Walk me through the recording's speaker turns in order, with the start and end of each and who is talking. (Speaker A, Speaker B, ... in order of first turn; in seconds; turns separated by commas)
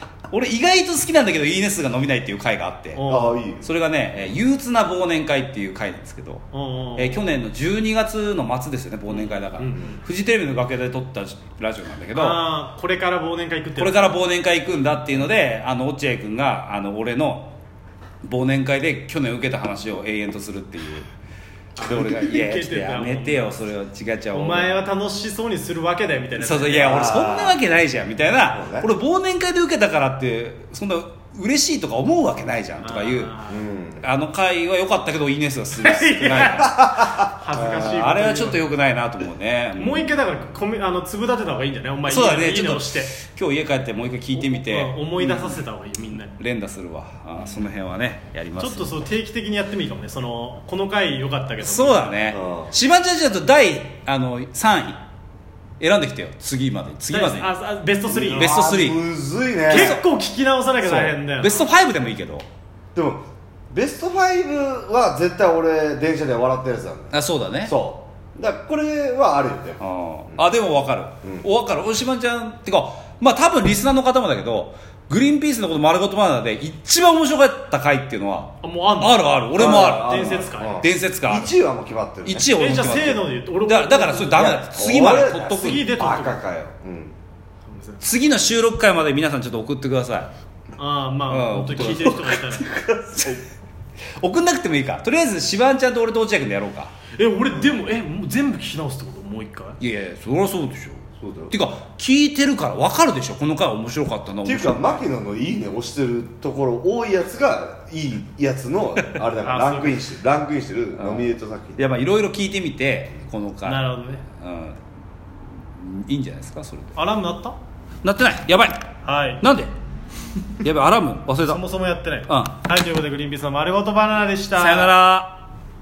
Speaker A: 0.3-3.0, Speaker B: 3.0-3.4, Speaker C: 3.1-3.7, Speaker A: 3.6-6.4, Speaker B: 6.5-7.2, Speaker A: 7.0-12.4, Speaker B: 9.1-10.0, Speaker B: 12.1-14.2, Speaker A: 13.8-17.6, Speaker A: 18.2-21.1, Speaker B: 21.8-23.6, Speaker A: 21.8-24.8, Speaker B: 24.3-27.5, Speaker A: 26.4-33.3, Speaker C: 26.8-27.6, Speaker C: 28.4-28.9, Speaker B: 32.8-33.6, Speaker C: 33.5-34.0, Speaker A: 34.0-36.9, Speaker B: 35.8-38.6, Speaker C: 36.8-37.9, Speaker A: 37.8-40.1, Speaker B: 39.8-43.1, Speaker A: 42.1-49.0, Speaker B: 44.3-46.3, Speaker B: 48.6-52.3, Speaker A: 51.6-55.0, Speaker C: 52.3-52.7, Speaker A: 55.8-57.5, Speaker B: 57.1-58.7, Speaker C: 58.1-59.9, Speaker A: 58.3-59.0, Speaker B: 59.7-61.7, Speaker A: 59.7-60.0, Speaker A: 60.8-62.5, Speaker C: 63.0-67.1, Speaker A: 67.1-67.8, Speaker C: 67.7-70.4, Speaker A: 69.8-81.5, Speaker B: 78.6-80.8, Speaker C: 79.5-82.5, Speaker A: 82.2-85.9, Speaker B: 82.5-84.8, Speaker C: 84.7-87.2, Speaker B: 85.5-86.4, Speaker B: 87.7-88.0, Speaker A: 88.0-90.3, Speaker B: 90.8-92.7, Speaker A: 91.3-93.4, Speaker C: 92.7-93.3, Speaker A: 94.2-96.9, Speaker B: 97.1-99.8, Speaker A: 99.8-105.0, Speaker C: 101.2-101.5, Speaker C: 104.5-111.8, Speaker A: 109.0-109.2, Speaker B: 109.4-110.1, Speaker A: 111.0-114.8, Speaker B: 113.7-114.2, Speaker A: 115.7-117.0, Speaker B: 117.0-117.6, Speaker A: 118.0-118.8, Speaker B: 119.0-119.4, Speaker A: 119.4-119.7, Speaker A: 120.6-121.6, Speaker B: 121.5-125.0, Speaker A: 122.3-122.6, Speaker A: 124.6-125.4